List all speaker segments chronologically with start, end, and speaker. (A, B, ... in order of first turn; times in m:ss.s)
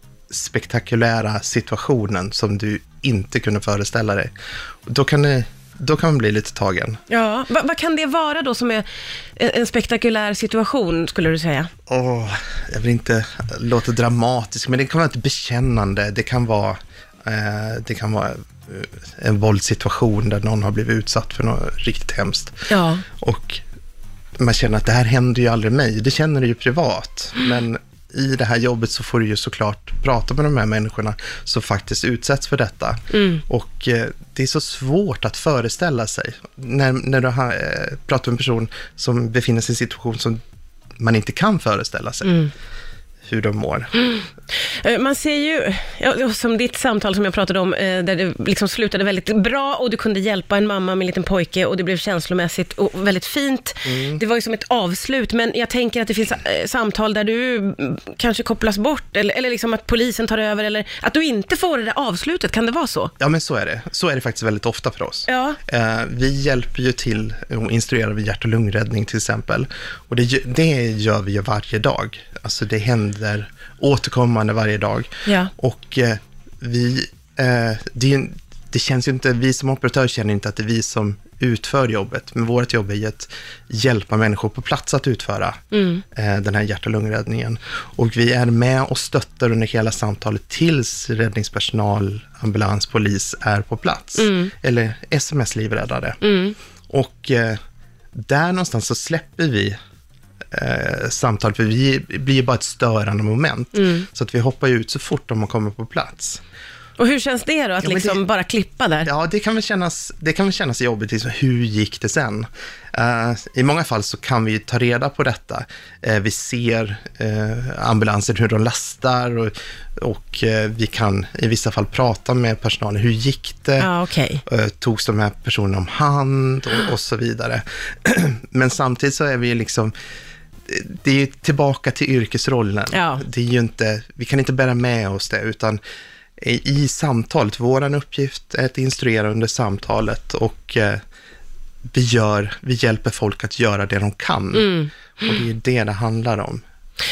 0:00.3-0:04.3 A
0:04.9-0:07.0 A
0:07.1-0:08.8 B
0:09.4-0:11.7 B
0:11.9-0:22.6 A
0:22.7-0:23.0 B
0:23.2-0:23.6 A
0:24.4-0:40.4 A
0:33.1-0:33.4 B
0:41.0-0:42.4 A
0:42.2-0:42.5 B
0:43.3-0:43.9 A
0:44.0-1:03.1 B
0:53.8-0:54.2 A
1:03.2-1:25.6 A
1:05.3-1:05.6 B
1:15.3-1:15.5 B
1:25.7-1:26.0 B
1:26.1-1:36.2 A
1:34.2-1:34.5 B
1:36.2-1:36.6 B
1:36.9-1:37.6 A
1:38.2-1:39.8 A
1:40.5-1:46.4 A
1:43.8-1:44.1 B
1:47.0-1:49.1 B
1:47.8-1:48.2 A
1:49.1-2:03.9 A
2:03.8-2:04.4 B
2:04.5-2:09.9 A
2:10.7-2:15.8 A
2:12.9-2:13.2 B
2:16.4-2:21.0 A
2:21.9-2:26.6 A
2:24.6-2:24.9 B